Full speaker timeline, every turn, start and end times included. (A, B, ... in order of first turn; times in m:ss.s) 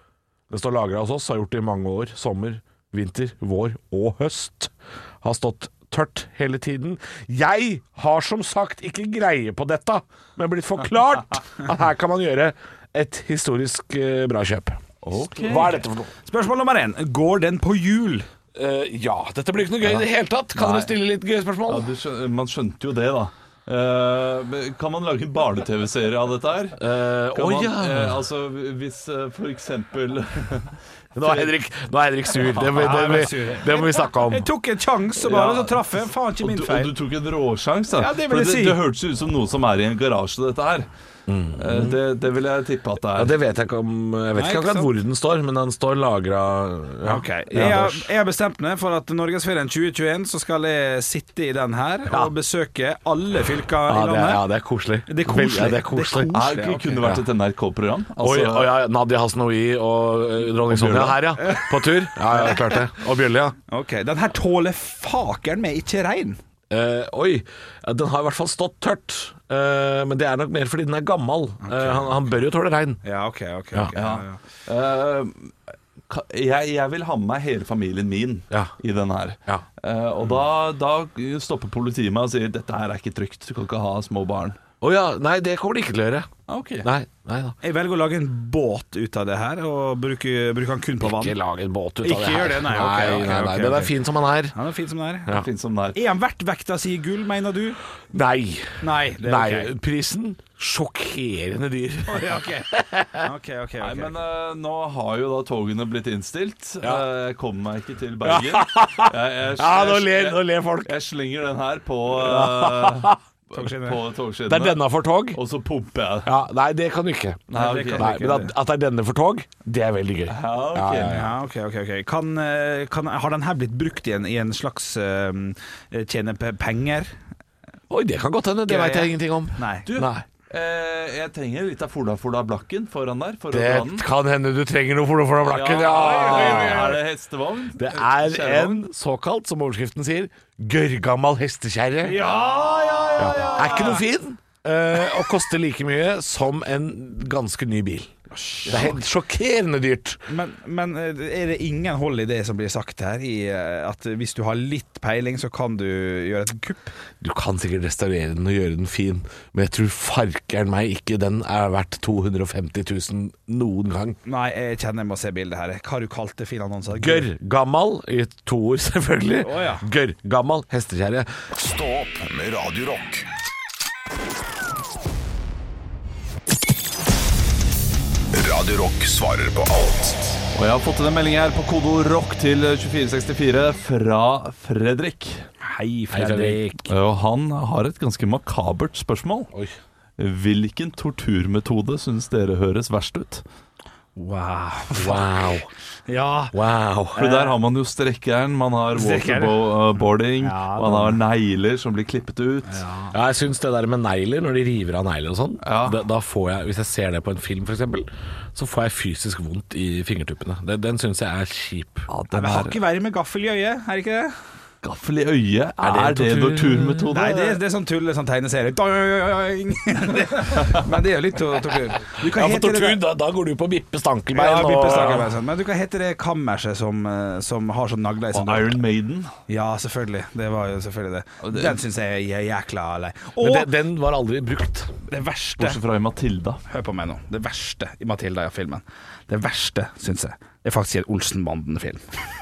0:00.5-0:14.8 A
0:15.0-0:15.7 B
0:15.1-0:18.3 C
0:15.4-0:16.1 A
0:18.5-0:21.9 A
0:19.8-0:20.9 B
0:21.7-0:31.5 B
0:26.8-0:28.2 A
0:31.1-0:34.5 A
0:32.6-0:36.9 C
0:35.2-0:40.9 B
0:38.0-0:38.8 C
0:41.3-0:42.0 A
0:41.6-0:43.3 B
0:43.1-0:48.1 A
0:44.4-0:44.9 C
0:47.0-0:54.4 C
0:53.8-0:56.3 A
0:55.1-0:57.0 C
0:56.3-0:58.7 B
0:58.2-1:03.6 A
1:00.6-1:01.3 B
1:03.7-1:06.4 C
1:06.7-1:13.0 A
1:11.6-1:12.0 C
1:13.0-1:14.4 C
1:13.9-1:15.6 B
1:16.1-1:24.6 B
1:24.8-1:26.3 A
1:26.5-1:26.9 B
1:26.8-1:27.6 A
1:27.6-1:31.4 C
1:31.0-1:34.5 A
1:32.0-1:34.0 C
1:34.5-1:35.4 C
1:35.3-1:36.0 B
1:35.9-1:37.8 C
1:38.1-1:43.3 A
1:38.8-1:39.7 C
1:42.1-1:44.2 C
1:43.8-1:54.8 B
1:48.2-1:50.9 A
1:52.1-1:53.2 A
1:53.5-1:54.0 C
1:54.5-1:55.4 A
1:55.3-1:56.3 B
1:56.2-2:01.3 A
1:57.5-1:58.2 B
1:57.5-1:58.5 C
2:00.3-2:01.3 B
2:01.0-2:07.1 C
2:07.9-2:10.2 A
2:08.6-2:09.9 C
2:09.9-2:14.0 B
2:13.5-2:16.9 A
2:15.4-2:18.8 B
2:15.9-2:17.0 C
2:17.8-2:22.3 A
2:22.0-2:24.0 C
2:23.2-2:28.1 A
2:28.3-2:29.0 C
2:28.6-2:30.2 A
2:30.3-2:36.9 C
2:37.2-2:44.2 A
2:44.2-2:47.3 C
2:46.9-2:51.3 A
2:49.4-2:49.8 C
2:51.5-2:53.3 D
2:58.3-3:00.4 D
3:00.5-3:05.4 B
3:05.6-3:06.9 C
3:06.1-3:06.6 A
3:06.9-3:09.5 B
3:10.2-3:13.4 B
3:14.2-3:15.4 C
3:14.9-3:15.7 A
3:16.1-3:16.6 C
3:16.5-3:17.2 A
3:17.1-3:17.5 C
3:17.1-3:22.8 B
3:18.9-3:19.7 C
3:20.4-3:21.2 C
3:22.7-3:23.1 C
3:23.1-3:32.0 A
3:25.6-3:26.0 B
3:32.1-3:32.8 B
3:32.3-3:34.4 C
3:34.8-3:37.6 B
3:35.8-3:37.3 A
3:37.1-3:43.0 C
3:42.2-3:45.3 A
3:44.3-3:48.8 C
3:48.3-3:49.3 B
3:49.5-3:53.7 C
3:51.4-3:51.8 B
3:53.4-3:54.9 A
3:55.1-3:55.8 C
3:55.6-3:56.6 B
3:56.7-4:02.3 C